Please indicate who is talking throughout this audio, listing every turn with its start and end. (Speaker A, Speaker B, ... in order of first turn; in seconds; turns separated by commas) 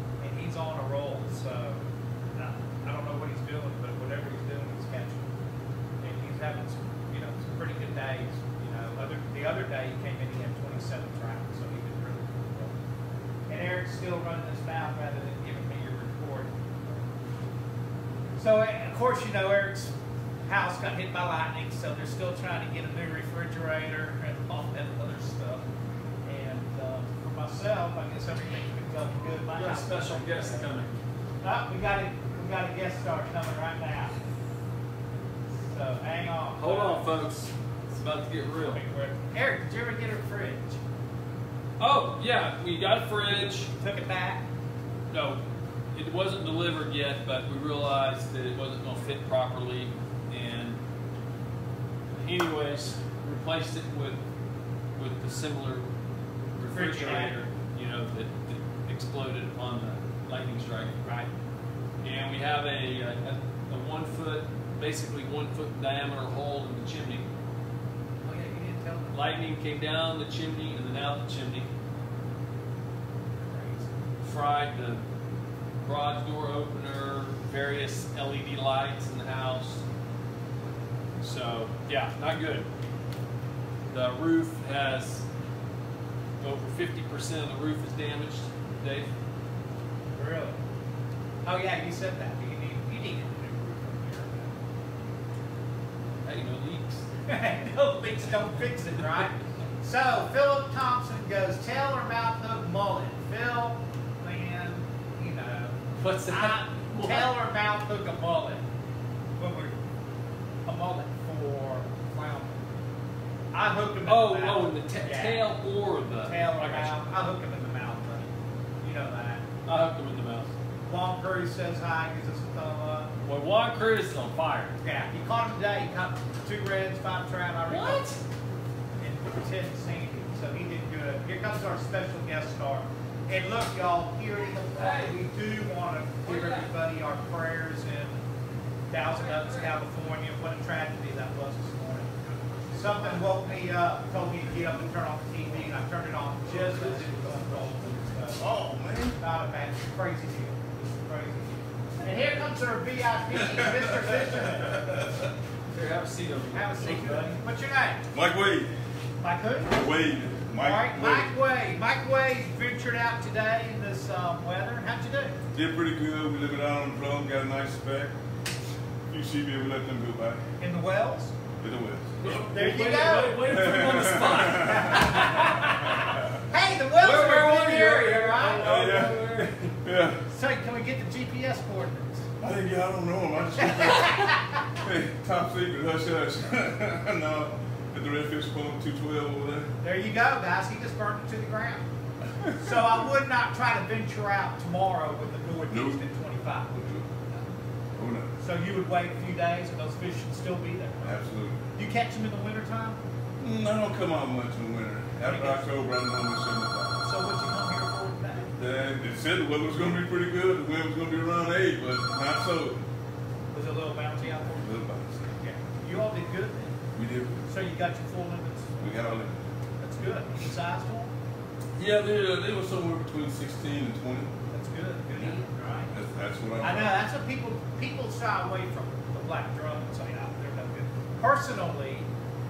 Speaker A: 0.2-5.3, Speaker A: 6.0-12.8, Speaker A: 13.5-16.6, Speaker A: 18.4-25.6, Speaker A: 26.2-30.7, Speaker B: 29.5-31.0, Speaker A: 31.4-34.1, Speaker A: 35.6-37.1, Speaker B: 36.6-38.8, Speaker A: 38.6-40.8, Speaker B: 41.8-43.7, Speaker A: 43.7-44.5, Speaker B: 45.1-45.4, Speaker B: 45.9-50.8, Speaker B: 52.2-54.2, Speaker B: 55.0-55.9, Speaker B: 56.5-61.0, Speaker A: 56.7-57.4, Speaker A: 61.0-61.3, Speaker B: 62.0-67.3, Speaker A: 68.2-69.2, Speaker B: 69.1-71.7, Speaker A: 73.4-73.9, Speaker B: 74.2-75.0, Speaker B: 75.8-79.8, Speaker B: 81.2-82.7, Speaker B: 83.9-85.3, Speaker B: 86.4-89.1, Speaker A: 90.1-90.6, Speaker A: 91.4-94.6, Speaker B: 96.2-97.1, Speaker A: 97.3-108.7, Speaker B: 106.0-107.3, Speaker A: 109.4-109.8, Speaker A: 110.7-112.7, Speaker A: 113.5-115.5, Speaker B: 114.0-117.0, Speaker A: 116.2-118.3, Speaker A: 118.8-119.5, Speaker B: 119.7-120.5, Speaker A: 120.8-123.1, Speaker B: 123.2-124.8, Speaker A: 124.8-128.1, Speaker B: 127.7-128.2, Speaker A: 129.0-138.2, Speaker B: 134.8-135.2, Speaker B: 136.2-136.7, Speaker A: 138.9-142.1, Speaker B: 139.0-139.8, Speaker A: 142.7-148.5, Speaker C: 148.4-149.2, Speaker A: 149.2-154.8, Speaker C: 154.7-155.3, Speaker B: 155.7-157.3, Speaker A: 156.5-158.1, Speaker C: 158.1-158.7, Speaker A: 159.2-159.9, Speaker C: 159.7-161.3, Speaker A: 160.6-165.4, Speaker C: 165.5-168.2, Speaker C: 169.1-170.4, Speaker A: 170.6-171.4, Speaker C: 171.5-172.4, Speaker B: 172.2-176.1, Speaker A: 172.5-173.5, Speaker C: 173.4-175.1, Speaker A: 174.6-178.9, Speaker B: 177.0-179.8, Speaker C: 178.6-180.2, Speaker A: 180.3-182.3, Speaker C: 182.4-189.7, Speaker A: 183.6-184.7, Speaker A: 189.8-191.9, Speaker C: 192.3-192.7, Speaker A: 192.6-197.0, Speaker C: 195.7-196.0, Speaker C: 196.8-197.1, Speaker C: 197.9-198.4, Speaker A: 198.4-201.2, Speaker C: 201.0-201.7, Speaker A: 201.8-203.0, Speaker C: 203.4-207.1, Speaker A: 205.3-205.7, Speaker A: 207.0-208.5, Speaker C: 208.6-212.8, Speaker A: 213.5-214.7, Speaker C: 214.4-215.3, Speaker A: 215.4-216.8, Speaker C: 216.9-217.5, Speaker A: 217.5-218.9, Speaker C: 218.8-219.5, Speaker A: 219.8-221.1, Speaker C: 221.8-224.3, Speaker A: 224.5-225.9, Speaker C: 225.9-226.9, Speaker A: 226.6-232.1